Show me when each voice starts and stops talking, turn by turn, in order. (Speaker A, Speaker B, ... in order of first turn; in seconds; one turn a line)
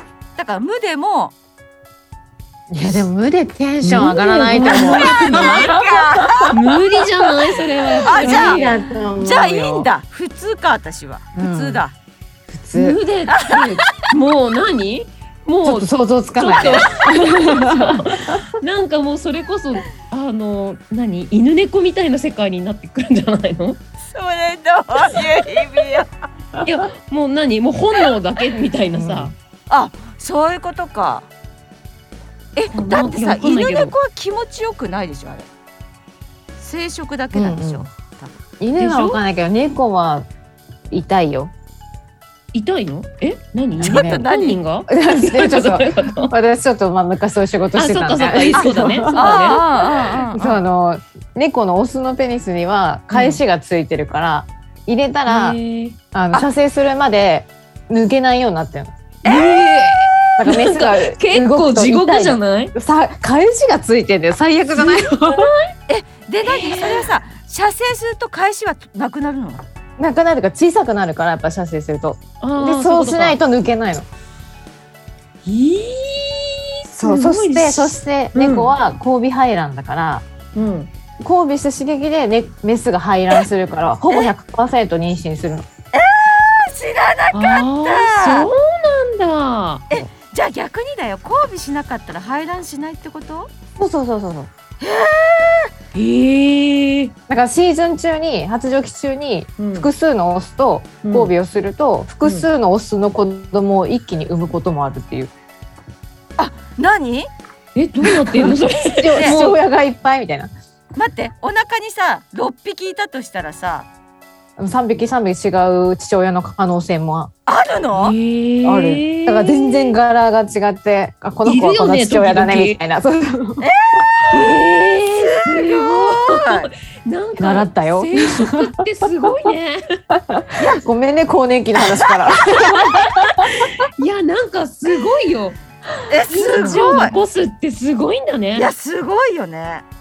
Speaker A: 0.4-1.4
Speaker B: 2.7-6.5
Speaker C: 3.8-5.8
Speaker A: 4.9-6.5
Speaker C: 6.5-8.9
Speaker B: 8.0-9.9
Speaker A: 8.0-8.7
Speaker A: 9.2-11.9
Speaker B: 11.4-11.8
Speaker B: 12.5-13.0
Speaker C: 12.7-23.8
Speaker A: 13.3-13.9
Speaker B: 15.6-18.4
Speaker A: 24.1-26.1
Speaker C: 26.6-29.3
Speaker B: 28.9-29.3
Speaker A: 29.7-31.3
Speaker A: 32.6-35.5
Speaker C: 32.7-34.0
Speaker A: 36.6-38.4
Speaker B: 37.3-37.9
Speaker B: 38.6-40.2
Speaker C: 38.8-39.2
Speaker B: 40.9-41.5
Speaker C: 42.5-46.3
Speaker B: 43.8-44.3
Speaker A: 43.8-44.6
Speaker B: 44.9-49.6
Speaker C: 47.8-49.7
Speaker A: 48.5-50.6
Speaker B: 50.3-55.6
Speaker C: 53.1-53.4
Speaker C: 55.3-56.0
Speaker B: 56.1-59.0
Speaker A: 59.2-60.3
Speaker C: 59.2-62.7
Speaker B: 60.4-65.5
Speaker C: 64.7-65.7
Speaker A: 65.9-69.6
Speaker C: 66.5-66.9
Speaker B: 70.0-74.1
Speaker C: 72.4-73.4
Speaker C: 75.5-78.8
Speaker B: 77.0-85.7
Speaker C: 80.5-80.9
Speaker A: 85.9-88.5
Speaker C: 87.3-89.8
Speaker A: 89.9-93.5
Speaker B: 93.8-94.5
Speaker A: 94.8-95.7
Speaker C: 95.9-97.1
Speaker B: 97.3-105.3
Speaker C: 99.6-99.9
Speaker C: 101.0-101.3
Speaker A: 106.4-107.3
Speaker C: 107.8-109.6
Speaker B: 108.0-110.5
Speaker A: 111.0-113.9
Speaker B: 114.6-117.3
Speaker A: 117.5-118.2
Speaker C: 117.9-120.0
Speaker B: 118.6-123.7
Speaker C: 121.5-122.8
Speaker A: 123.6-126.7
Speaker C: 124.3-129.8
Speaker B: 127.4-128.9
Speaker B: 130.1-133.7
Speaker A: 130.6-130.9
Speaker A: 131.8-132.4
Speaker C: 132.6-135.6
Speaker A: 136.1-137.2
Speaker C: 136.3-138.7
Speaker B: 136.6-137.0
Speaker A: 138.5-139.8